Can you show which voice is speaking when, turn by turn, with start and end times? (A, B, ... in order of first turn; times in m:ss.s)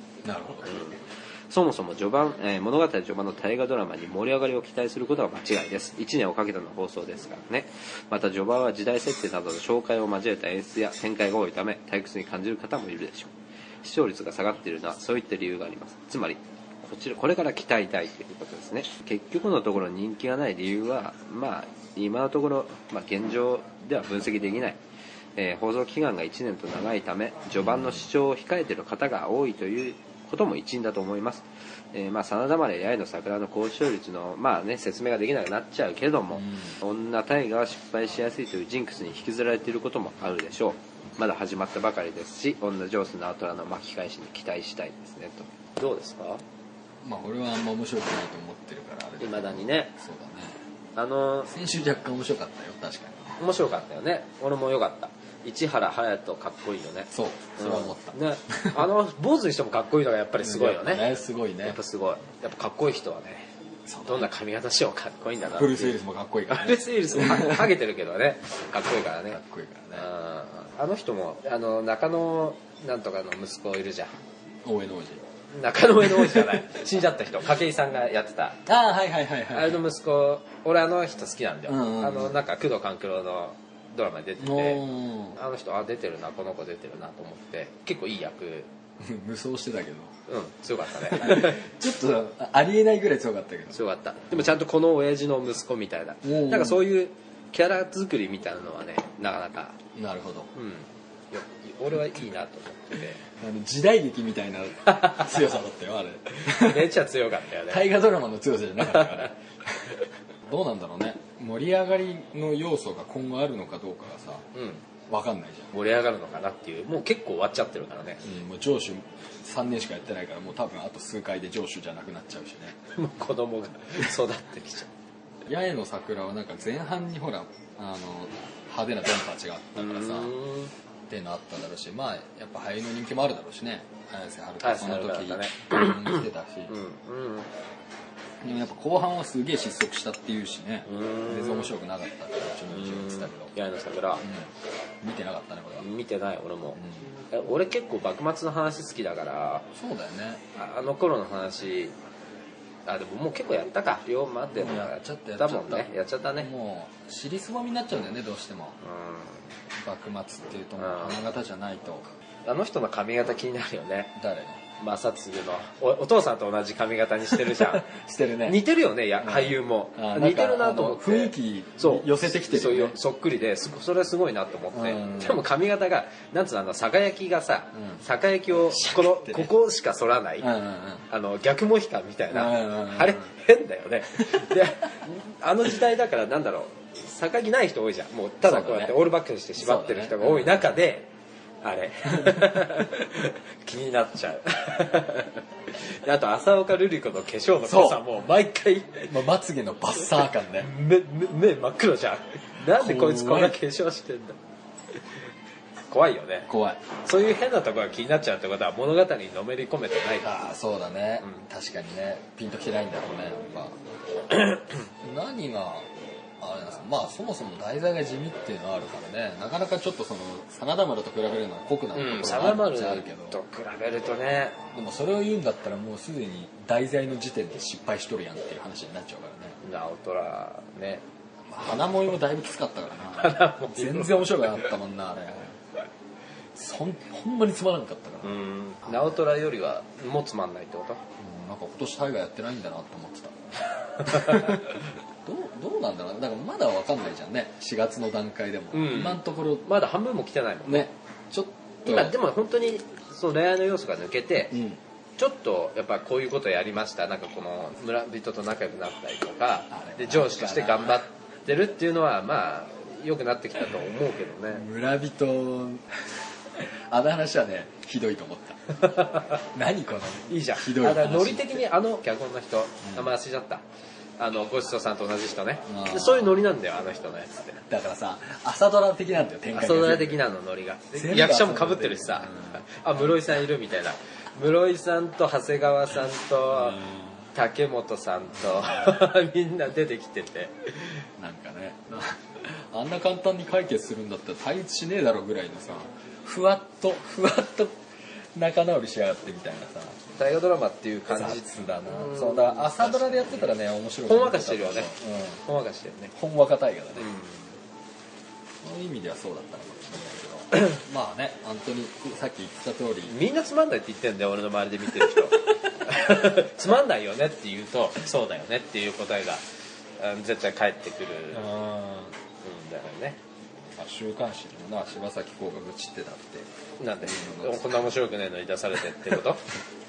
0:00.2-0:00.8 A
0:00.6-0:24.8 B
0:25.4-0:46.4 B
0:27.6-0:28.1 A
0:36.3-0:36.8 A
0:47.0-0:50.6 A
0:49.2-0:49.9 B
0:51.0-0:51.5 B
0:51.5-0:53.4 A
0:53.4-1:01.1 B
0:57.1-0:58.9 A
1:00.4-1:01.8 A
1:01.6-1:03.5 B
1:03.9-1:04.3 A
1:04.1-1:06.0 B
1:05.4-1:07.8 A
1:06.5-1:09.4 B
1:09.3-1:10.1 A
1:10.0-1:14.1 B
1:14.6-1:15.2 A
1:15.5-1:18.6 B
1:16.0-1:16.6 A
1:18.7-1:19.8 A
1:19.5-1:28.7 B
1:21.7-1:22.4 A
1:24.4-1:25.4 A
1:29.0-1:30.1 A
1:30.3-1:31.6 B
1:31.0-1:33.8 A
1:33.7-1:39.8 B
1:36.2-1:36.8 A
1:39.9-1:40.5 A
1:40.5-1:43.2 B
1:43.4-1:47.0 A
1:45.0-1:45.2 B
1:46.3-1:47.9 B
1:47.7-1:54.5 A
1:48.9-1:49.2 B
1:54.6-1:54.8 B
1:55.1-1:55.7 A
1:55.7-1:58.2 B
1:58.2-2:02.8 A
2:03.0-2:04.9 B
2:05.5-2:10.3 A
2:09.8-2:10.7 B
2:11.1-2:16.8 A
2:14.6-2:17.5 B
2:18.4-2:23.5 A
2:20.9-2:21.7 B
2:22.7-2:24.2 B
2:24.2-2:24.5 A
2:25.0-2:25.9 A
2:25.8-2:29.7 B
2:26.8-2:27.1 A
2:29.8-2:30.4 A
2:30.5-2:31.9 B
2:32.9-2:36.5 B
2:34.5-2:38.8 A
2:38.8-2:39.4 B
2:39.8-2:42.0 A
2:40.8-2:41.2 B
2:42.5-2:44.1 B
2:44.2-2:44.6 A
2:44.8-2:47.8 B
2:47.3-2:48.6 A
2:48.4-3:00.5 B
2:49.2-2:53.0 A
2:54.7-2:55.4 A
2:57.8-2:59.5 A
3:00.4-3:01.0 A
3:01.1-3:11.1 B
3:02.3-3:03.3 A
3:04.2-3:04.6 A
3:08.4-3:10.7 A
3:11.6-3:19.2 B
3:12.1-3:12.6 A
3:17.6-3:18.1 A
3:19.1-3:20.7 A
3:20.6-3:24.4 B
3:22.6-3:23.6 A
3:25.9-3:26.5 B
3:26.5-3:26.8 A
3:27.0-3:30.5 B
3:30.2-3:33.8 A
3:35.0-3:43.4 A
3:41.9-3:44.6 B
3:44.7-3:49.6 A
3:49.6-3:51.0 B
3:51.5-3:55.6 A
3:53.1-3:54.7 B
3:56.6-3:59.2 A
3:58.2-4:01.0 B
4:01.2-4:09.7 A
4:04.1-4:04.6 B
4:08.7-4:10.9 B
4:10.7-4:12.2 A
4:11.8-4:14.6 B
4:14.5-4:14.8 A
4:15.2-4:24.7 B
4:19.7-4:21.0 A
4:24.5-4:28.8 A
4:28.7-4:29.4 B
4:29.4-4:31.7 A
4:30.3-4:33.6 B
4:32.8-4:33.1 A
4:34.2-4:37.6 B
4:35.7-4:36.4 A
4:37.7-4:40.2 A
4:39.5-4:51.0 B
4:41.0-4:42.6 A
4:46.6-4:47.2 A
4:48.6-4:49.0 A
4:51.2-4:57.8 A
4:58.3-5:00.0 A
5:00.2-5:03.5 B
5:01.1-5:05.4 A
5:04.1-5:04.9 B
5:05.4-5:06.1 B
5:06.1-5:07.1 A
5:07.0-5:07.5 B
5:08.6-5:13.2 A
5:13.1-5:19.4 B
5:20.0-5:21.5 B
5:21.3-5:22.1 A
5:22.4-5:23.2 B
5:23.8-5:26.5 A
5:26.8-5:29.4 B
5:27.0-5:27.9 A